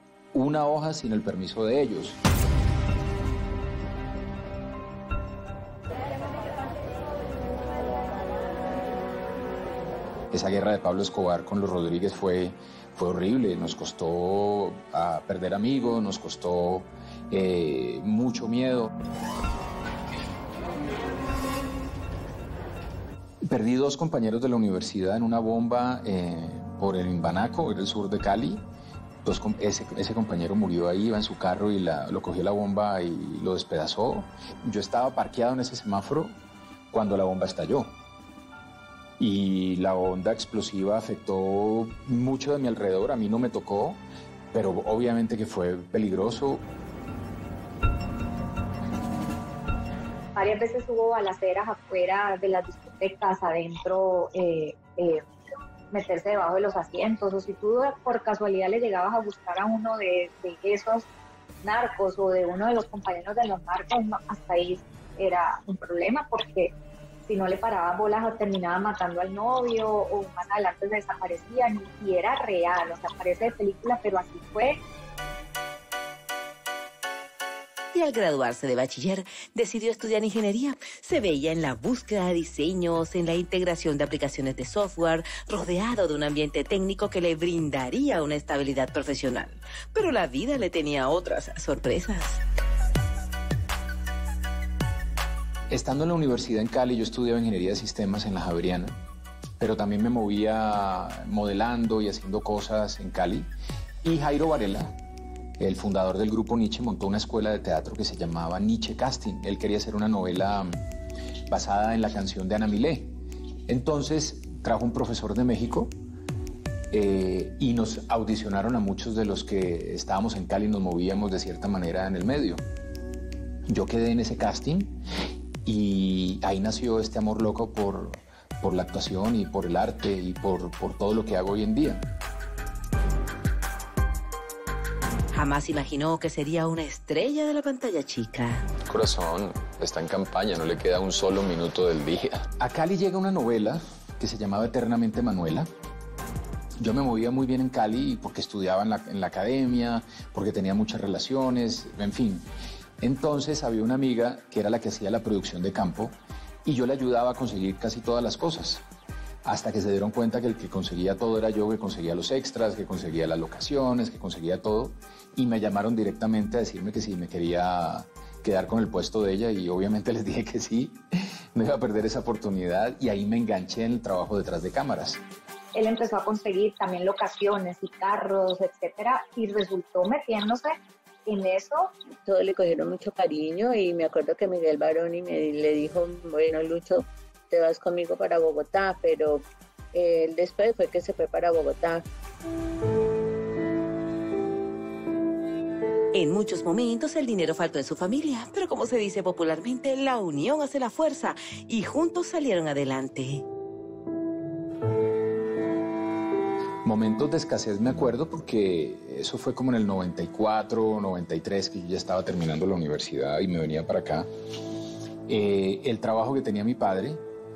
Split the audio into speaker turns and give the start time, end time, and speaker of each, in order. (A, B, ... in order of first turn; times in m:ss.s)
0:00.3-0:02.2 A
0:10.3-0:18.9 A
0:23.4-0:28.6 A
0:29.2-0:36.3 A
0:36.9-0:37.9 A
0:39.2-0:44.0 A
0:44.5-0:46.6 A
0:50.3-0:55.2 B
0:55.9-1:01.1 B
1:01.6-1:06.7 B
1:07.2-1:14.8 B
1:17.9-1:32.4 C
1:35.7-1:39.0 A
1:39.6-1:43.5 A
1:44.0-1:45.0 A
1:45.6-1:50.8 A
1:51.5-1:53.1 A
1:53.7-1:55.9 A
1:56.9-2:02.6 A
2:03.7-2:05.0 A
2:05.6-2:12.0 A
2:15.3-2:18.7 C
2:18.9-2:20.4 A
2:19.6-2:22.4 D
2:22.5-2:25.7 A
2:26.8-2:32.4 A
2:33.0-2:38.8 A
2:39.4-2:51.0 A
2:51.5-2:55.2 A
2:55.7-3:01.9 B
3:02.2-3:12.0 E
3:16.1-3:23.4 C
3:26.8-3:34.3 A
3:35.3-3:37.2 A